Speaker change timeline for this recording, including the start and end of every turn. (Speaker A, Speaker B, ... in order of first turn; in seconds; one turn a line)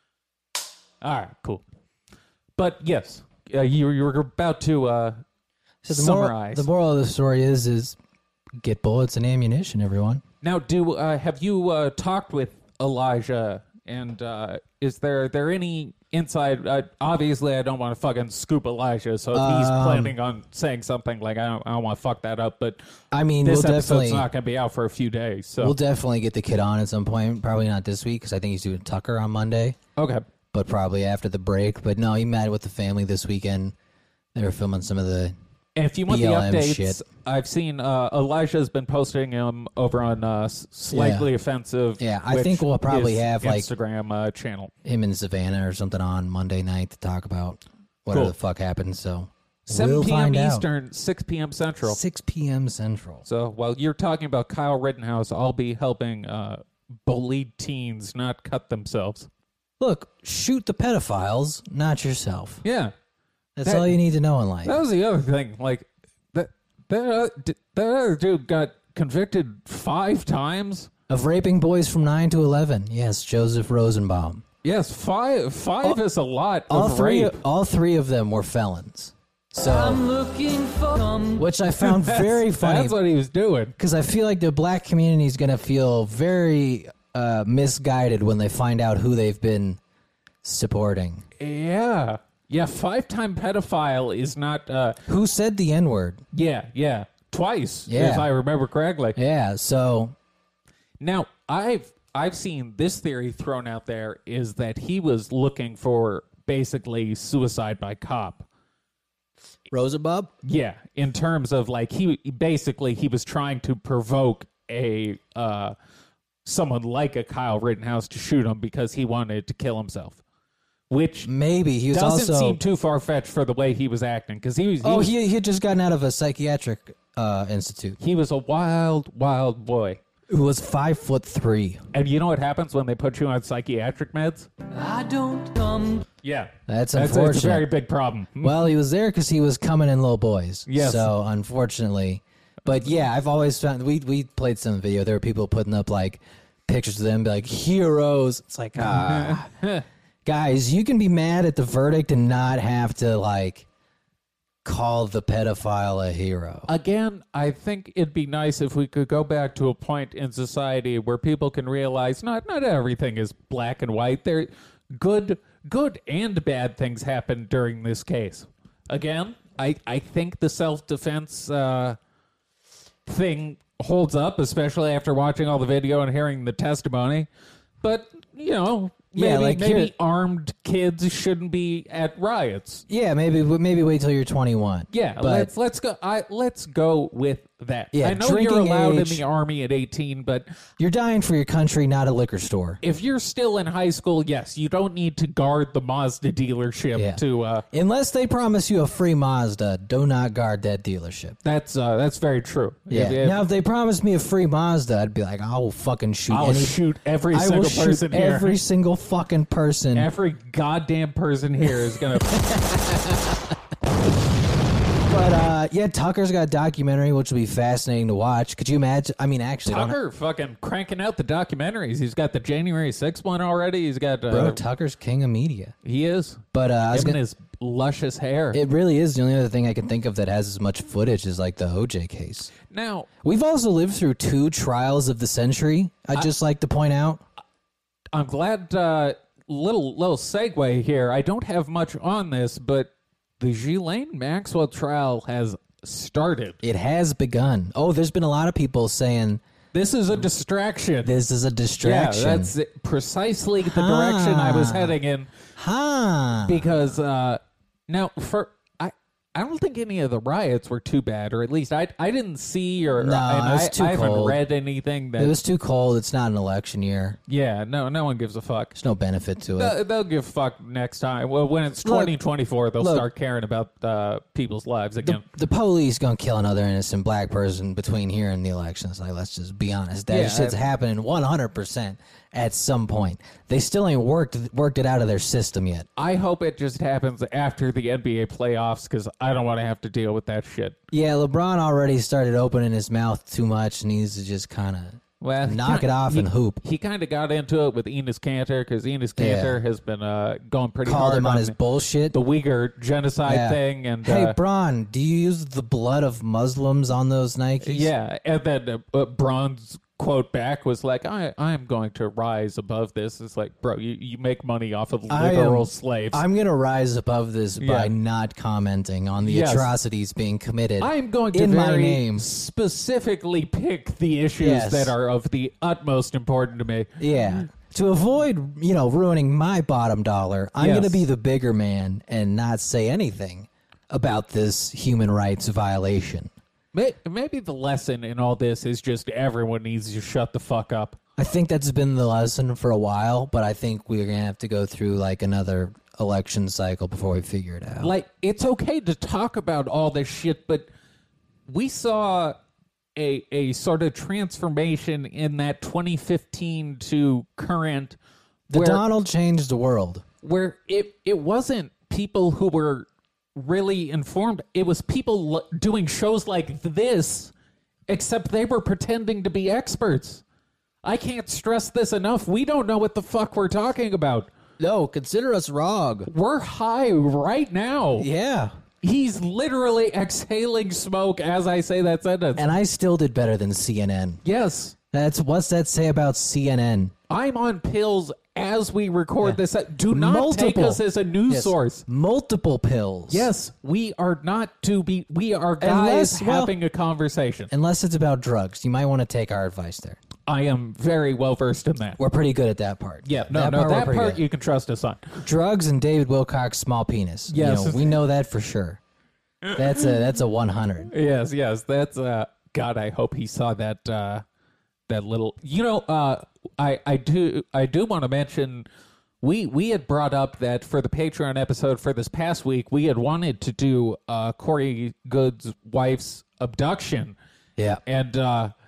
Speaker A: 1.0-1.6
Speaker A: 2.6-5.2
Speaker B: 5.8-8.0
Speaker A: 5.9-6.7
Speaker B: 8.6-10.2
Speaker A: 10.4-22.8
Speaker B: 19.3-20.1
Speaker B: 23.1-24.3
Speaker A: 23.4-25.8
Speaker B: 25.6-29.8
Speaker A: 30.0-30.2
Speaker B: 30.5-33.7
Speaker B: 34.3-35.3
Speaker A: 35.8-44.7
Speaker B: 36.1-37.0
Speaker B: 40.9-41.3
Speaker B: 42.0-43.7
Speaker B: 44.8-50.6
Speaker A: 49.7-52.0
Speaker B: 51.8-53.2
Speaker A: 53.2-59.3
Speaker B: 59.8-62.6
Speaker A: 62.6-62.9
Speaker B: 63.6-64.8
Speaker A: 63.6-64.0
Speaker A: 64.6-70.9
Speaker B: 71.1-74.4
Speaker A: 74.6-77.4
Speaker B: 76.7-80.0
Speaker C: 79.6-81.5
Speaker B: 81.4-83.0
Speaker A: 81.8-83.7
Speaker B: 83.8-89.8
Speaker B: 90.4-91.2
Speaker A: 91.4-95.0
Speaker B: 95.1-96.2
Speaker A: 96.3-99.2
Speaker B: 97.9-98.3
Speaker B: 99.2-100.1
Speaker A: 101.0-108.5
Speaker B: 109.7-110.3
Speaker A: 110.4-115.7
Speaker A: 116.4-120.2
Speaker A: 120.9-121.3
Speaker B: 121.2-122.6
Speaker A: 121.9-125.1
Speaker B: 124.8-128.0
Speaker A: 128.0-130.0
Speaker B: 130.3-131.8
Speaker A: 131.9-134.5
Speaker C: 134.7-136.0
Speaker A: 136.2-138.5
Speaker B: 136.7-137.7
Speaker B: 138.4-149.5
Speaker A: 140.7-141.1
Speaker A: 148.8-149.8
Speaker B: 150.2-153.7
Speaker B: 154.6-156.7
Speaker A: 156.7-172.0
Speaker A: 173.1-177.3
Speaker A: 177.8-182.8
Speaker B: 179.1-179.9
Speaker B: 182.9-185.5
Speaker A: 184.9-190.5
Speaker B: 187.9-189.2
Speaker B: 190.8-192.8
Speaker A: 192.8-197.6
Speaker B: 196.9-201.4
Speaker A: 201.4-203.4
Speaker B: 202.9-206.8
Speaker A: 206.3-208.6
Speaker B: 207.3-210.1
Speaker A: 209.9-212.4
Speaker B: 212.3-213.3
Speaker B: 215.1-220.0
Speaker A: 219.7-224.6
Speaker B: 224.3-225.7
Speaker A: 225.8-228.6
Speaker B: 226.5-227.2
Speaker B: 228.5-232.5
Speaker A: 232.7-233.1
Speaker B: 233.2-237.2
Speaker A: 238.1-246.6
Speaker B: 246.6-249.4
Speaker A: 249.7-251.1
Speaker B: 251.0-252.5
Speaker A: 251.8-255.3
Speaker B: 253.6-254.9
Speaker B: 255.6-256.6
Speaker A: 256.4-265.4
Speaker B: 263.0-264.4
Speaker B: 265.2-267.2
Speaker A: 267.3-268.8
Speaker B: 268.7-269.8
Speaker A: 269.6-275.2
Speaker B: 271.8-272.1
Speaker B: 272.8-273.1
Speaker B: 275.0-285.9
Speaker A: 280.1-280.6
Speaker A: 286.0-290.8
Speaker B: 290.9-296.6
Speaker A: 295.2-301.6
Speaker B: 299.2-299.6
Speaker B: 300.8-302.2
Speaker A: 302.1-304.4
Speaker B: 303.2-307.9
Speaker A: 307.6-316.2
Speaker B: 315.1-322.3
Speaker A: 317.6-317.9
Speaker A: 319.2-319.7
Speaker A: 320.8-327.4
Speaker B: 324.4-324.9
Speaker B: 327.0-336.3
Speaker A: 330.6-331.0
Speaker A: 336.7-341.0
Speaker B: 341.2-347.9
Speaker A: 347.8-350.7
Speaker A: 351.5-352.4
Speaker A: 352.9-358.0
Speaker A: 358.5-358.8
Speaker B: 358.5-360.0
Speaker A: 360.2-367.3
Speaker A: 367.9-370.2
Speaker A: 370.8-374.3
Speaker B: 374.6-376.1
Speaker A: 376.1-378.1
Speaker B: 378.0-378.5
Speaker A: 378.8-382.4
Speaker B: 382.4-384.2
Speaker A: 384.2-384.7
Speaker B: 384.9-386.9
Speaker A: 387.1-391.8
Speaker B: 389.2-393.3
Speaker A: 393.1-397.5
Speaker B: 395.6-396.5
Speaker B: 397.5-400.0
Speaker A: 400.2-402.0
Speaker B: 402.0-404.2
Speaker A: 403.0-405.2
Speaker B: 405.2-408.8
Speaker A: 407.3-408.0
Speaker B: 409.5-410.9
Speaker A: 410.9-414.2
Speaker A: 414.9-418.7
Speaker A: 419.2-427.1
Speaker B: 427.6-427.8
Speaker A: 427.9-428.5